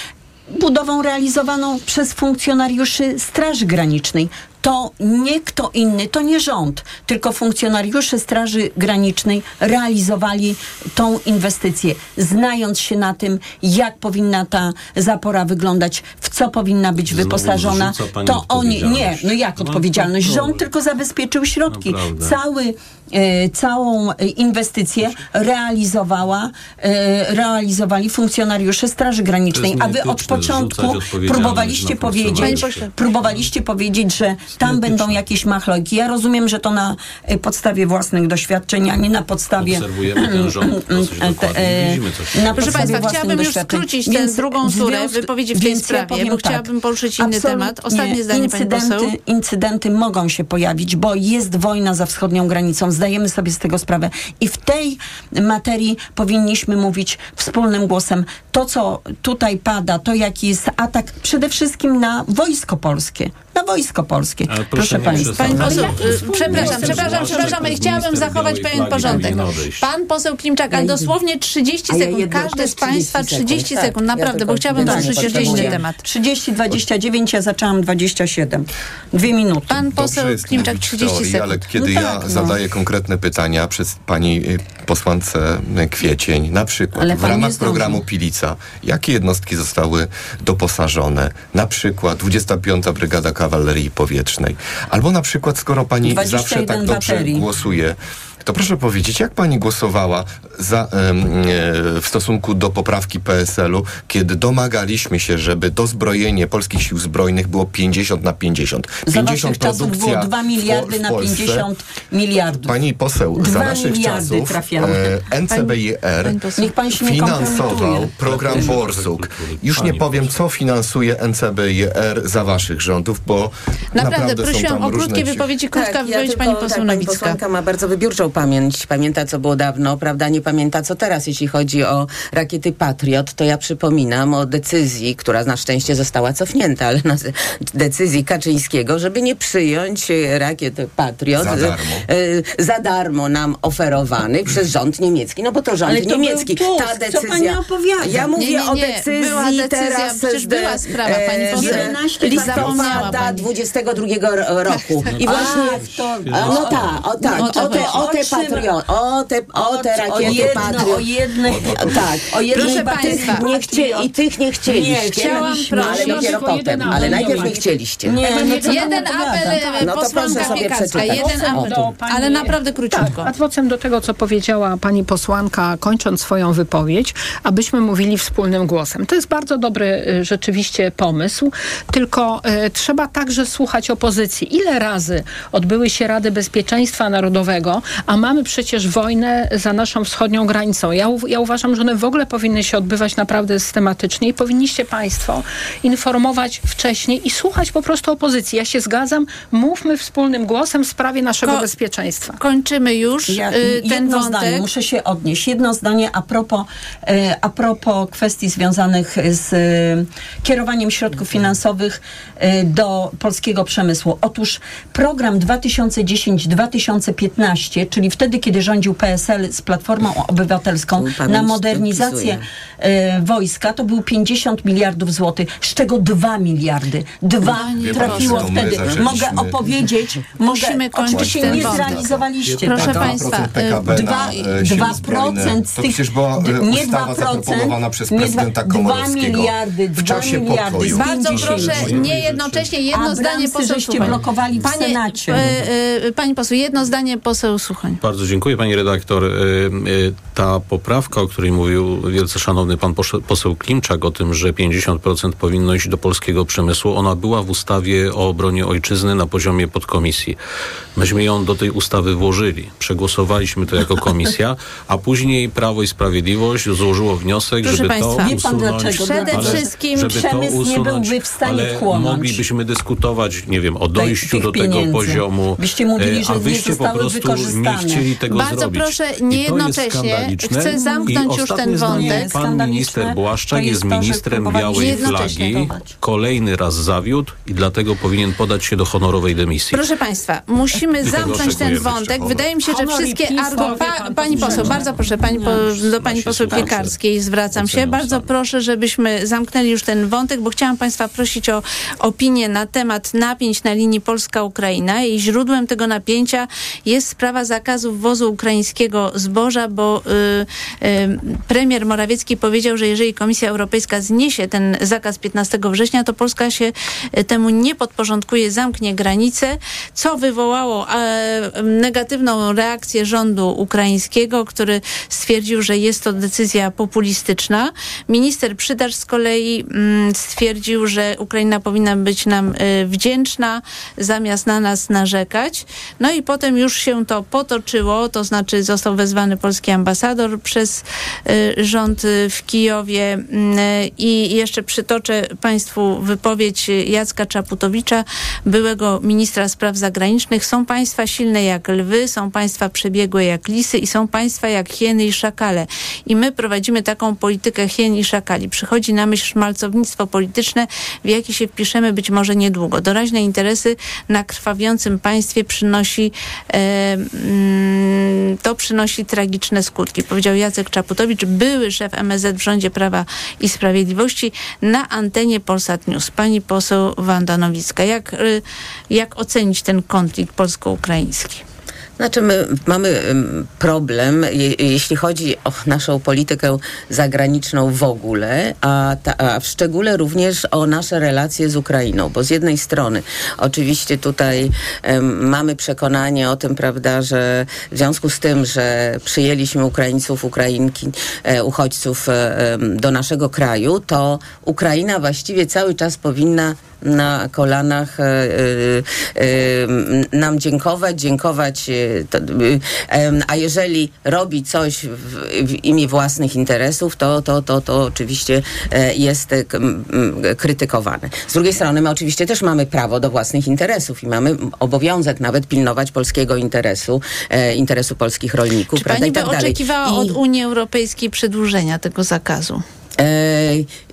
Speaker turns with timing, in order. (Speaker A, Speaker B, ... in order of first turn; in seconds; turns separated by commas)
Speaker A: 0.5-67.9, Speaker B: 17.1-20.6, Speaker B: 21.7-22.4, Speaker B: 29.5-33.4, Speaker C: 32.4-32.9, Speaker B: 34.6-35.2, Speaker B: 39.6-43.1, Speaker C: 42.6-49.1, Speaker B: 64.5-69.8, Speaker C: 65.2-76.0, Speaker D: 70.7-71.1, Speaker D: 71.9-75.8, Speaker A: 74.7-79.8, Speaker C: 79.7-81.6, Speaker E: 79.9-111.7, Speaker A: 81.8-82.6, Speaker A: 86.9-88.0, Speaker A: 96.0-97.5, Speaker A: 109.0-112.8, Speaker E: 112.6-125.5, Speaker A: 113.3-115.2, Speaker C: 115.5-116.7, Speaker A: 116.6-118.8, Speaker B: 118.2-120.3, Speaker C: 123.9-127.4, Speaker D: 125.7-155.8, Speaker E: 141.3-142.1, Speaker A: 145.8-148.3, Speaker C: 148.3-153.4, Speaker A: 151.5-153.2, Speaker C: 154.7-155.5, Speaker B: 155.1-157.0, Speaker A: 155.2-158.7, Speaker D: 156.3-168.3, Speaker C: 157.3-158.0, Speaker A: 159.5-164.1, Speaker B: 160.2-160.8, Speaker B: 161.5-162.0, Speaker C: 162.5-163.4, Speaker A: 164.6-169.8, Speaker C: 165.1-166.4, Speaker F: 165.8-167.6, Speaker F: 168.2-202.4, Speaker C: 168.6-173.3, Speaker D: 169.8-171.9, Speaker C: 202.4-204.7, Speaker A: 203.3-233.2, Speaker D: 221.0-222.4, Speaker C: 227.4-229.1, Speaker E: 227.7-229.6, Speaker C: 230.4-232.0, Speaker E: 231.1-241.1, Speaker B: 232.4-233.0, Speaker C: 232.6-234.9, Speaker A: 233.8-242.1, Speaker C: 240.8-248.0, Speaker B: 241.3-242.7, Speaker E: 241.7-242.0, Speaker A: 242.9-245.4, Speaker B: 244.0-244.6, Speaker B: 245.3-245.7, Speaker B: 248.0-260.4, Speaker B: 260.9-289.8, Speaker C: 267.6-268.4, Speaker A: 268.2-272.4, Speaker C: 269.0-270.2, Speaker A: 273.9-278.1, Speaker C: 278.3-282.3, Speaker A: 280.7-281.2, Speaker A: 281.8-285.9, Speaker C: 284.7-285.7, Speaker C: 289.7-381.4, Speaker B: 291.0-292.0, Speaker E: 291.0-292.4, Speaker F: 292.6-295.0, Speaker A: 294.3-295.6, Speaker B: 294.6-297.0, Speaker A: 296.5-296.8, Speaker B: 297.5-298.3, Speaker D: 382.0-430.2, Speaker C: 428.8-432.6, Speaker D: 433.0-433.7